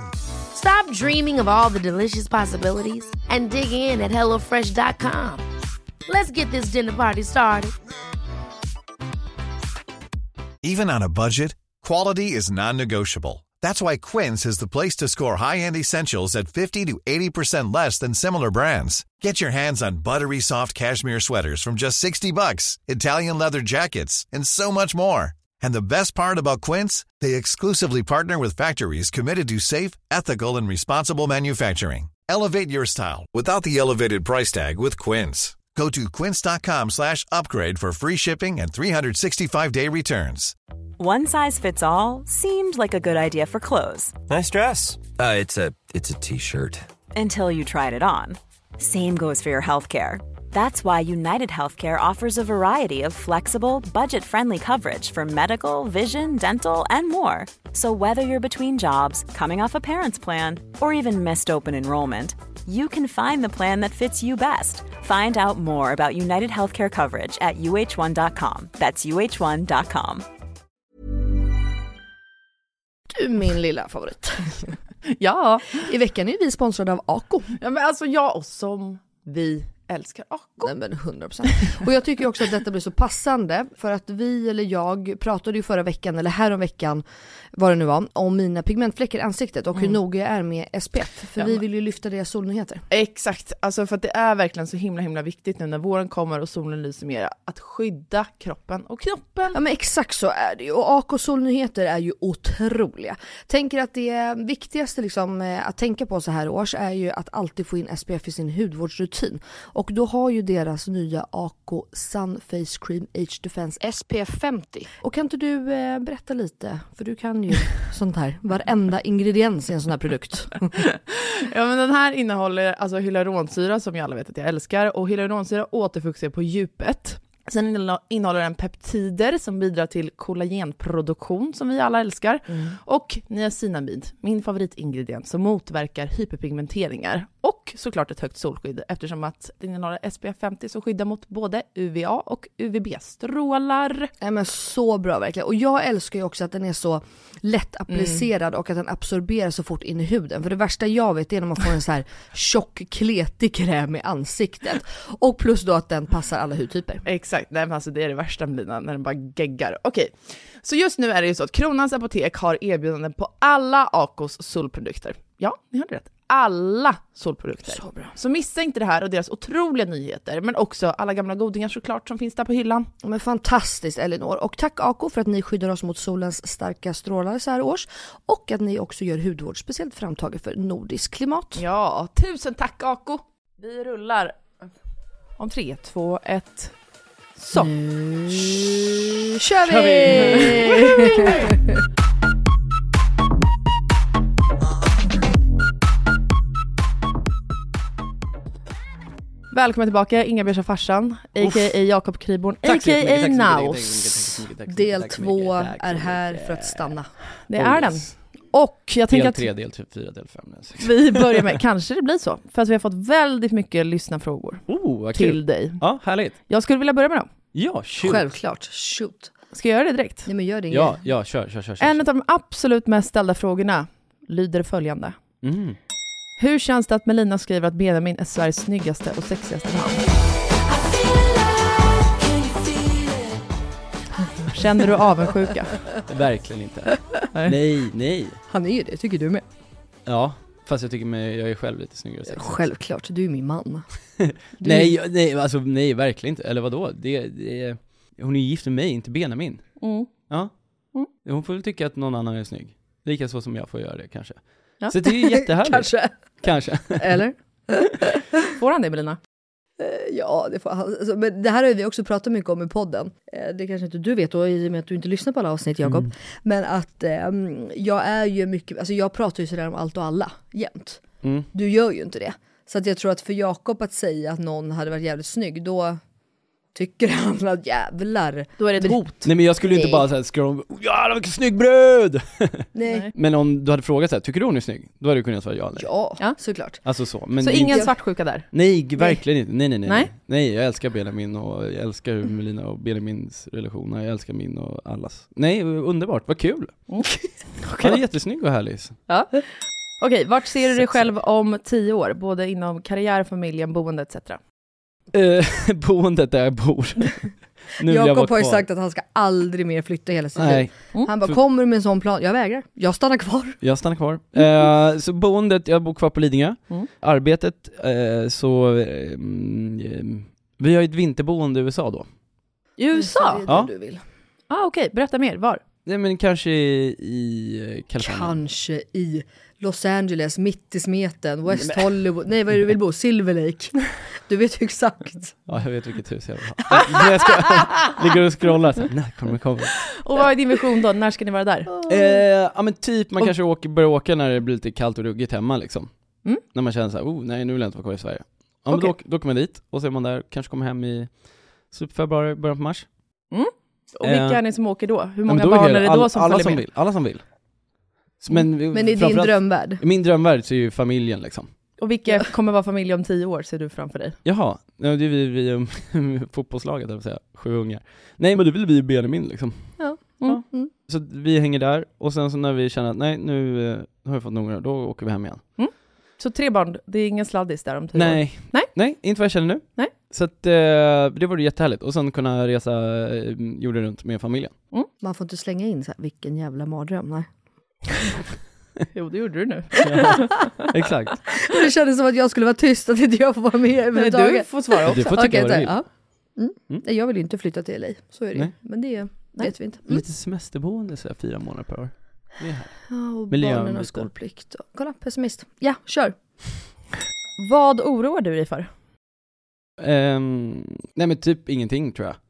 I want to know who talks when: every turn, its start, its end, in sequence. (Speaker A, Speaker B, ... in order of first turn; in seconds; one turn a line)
Speaker A: 0.5-5.5
Speaker A: 6.1-7.7
Speaker B: 10.6-40.5
Speaker C: 41.0-44.2
Speaker D: 44.3-46.9
Speaker C: 47.1-70.2
Speaker E: 73.1-74.8
Speaker F: 75.1-75.8
Speaker E: 75.7-77.6
Speaker F: 77.6-80.7
Speaker E: 80.6-92.8
Speaker F: 91.4-91.6
Speaker F: 92.9-99.6
Speaker E: 99.5-120.8
Speaker F: 121.4-144.1
Speaker E: 144.2-157.1
Speaker F: 147.9-148.3
Speaker F: 157.1-172.9
Speaker E: 167.7-168.2
Speaker E: 173.0-181.6
Speaker F: 181.6-184.6
Speaker F: 185.4-186.8
Speaker F: 187.4-187.7
Speaker E: 187.6-191.5
Speaker G: 189.7-190.7
Speaker F: 189.8-191.4
Speaker F: 199.5-204.3
Speaker G: 201.4-201.8
Speaker G: 202.6-208.4
Speaker E: 204.7-207.3
Speaker F: 207.5-209.5
Speaker G: 209.1-211.3
Speaker F: 210.8-217.3
Speaker G: 214.7-216.4
Speaker G: 217.5-218.3
Speaker E: 218.0-219.3
Speaker F: 219.5-220.3
Speaker E: 220.3-221.0
Speaker G: 220.7-222.0
Speaker F: 221.8-225.2
Speaker G: 225.4-225.8
Speaker F: 226.4-230.1
Speaker F: 234.5-235.8
Speaker G: 236.1-238.4
Speaker E: 238.5-239.4
Speaker G: 240.1-242.6
Speaker E: 242.3-244.9
Speaker G: 244.6-257.2
Speaker F: 249.8-250.3
Speaker E: 255.0-258.2
Speaker F: 258.6-259.2
Speaker E: 259.8-276.0
Speaker G: 265.8-266.1
Speaker G: 271.2-271.5
Speaker E: 276.7-280.0
Speaker F: 278.6-279.3
Speaker G: 279.2-285.9
Speaker E: 282.8-283.1
Speaker F: 282.9-283.1
Speaker E: 285.8-286.8
Speaker G: 286.8-296.9
Speaker F: 287.4-289.1
Speaker E: 287.7-288.0
Speaker F: 289.9-290.1
Speaker F: 297.6-298.0
Speaker G: 297.8-299.0
Speaker F: 299.1-304.4
Speaker G: 300.7-301.1
Speaker G: 305.1-308.7
Speaker E: 307.9-313.6
Speaker G: 310.4-311.4
Speaker G: 313.6-322.1
Speaker F: 322.8-323.4
Speaker E: 322.9-324.0
Speaker F: 324.5-325.6
Speaker G: 325.9-328.4
Speaker E: 328.0-335.4
Speaker G: 331.5-331.9
Speaker G: 335.5-339.9
Speaker F: 339.9-341.7
Speaker E: 341.7-342.2
Speaker G: 341.9-352.9
Speaker F: 353.3-356.6
Speaker G: 354.0-354.4
Speaker G: 355.3-357.3
Speaker G: 358.2-361.5
Speaker E: 358.6-359.8
Speaker F: 361.8-364.2
Speaker G: 364.2-375.6
Speaker E: 369.8-370.7
Speaker F: 375.6-378.7
Speaker G: 377.9-384.6
Speaker E: 385.0-388.0
Speaker F: 388.9-390.5
Speaker G: 389.8-391.2
Speaker E: 391.4-400.0
Speaker F: 393.9-395.4
Speaker G: 394.9-395.9
Speaker G: 398.3-398.9
Speaker G: 399.9-404.1
Speaker E: 402.9-406.6
Speaker F: 407.4-408.7
Speaker G: 409.8-412.2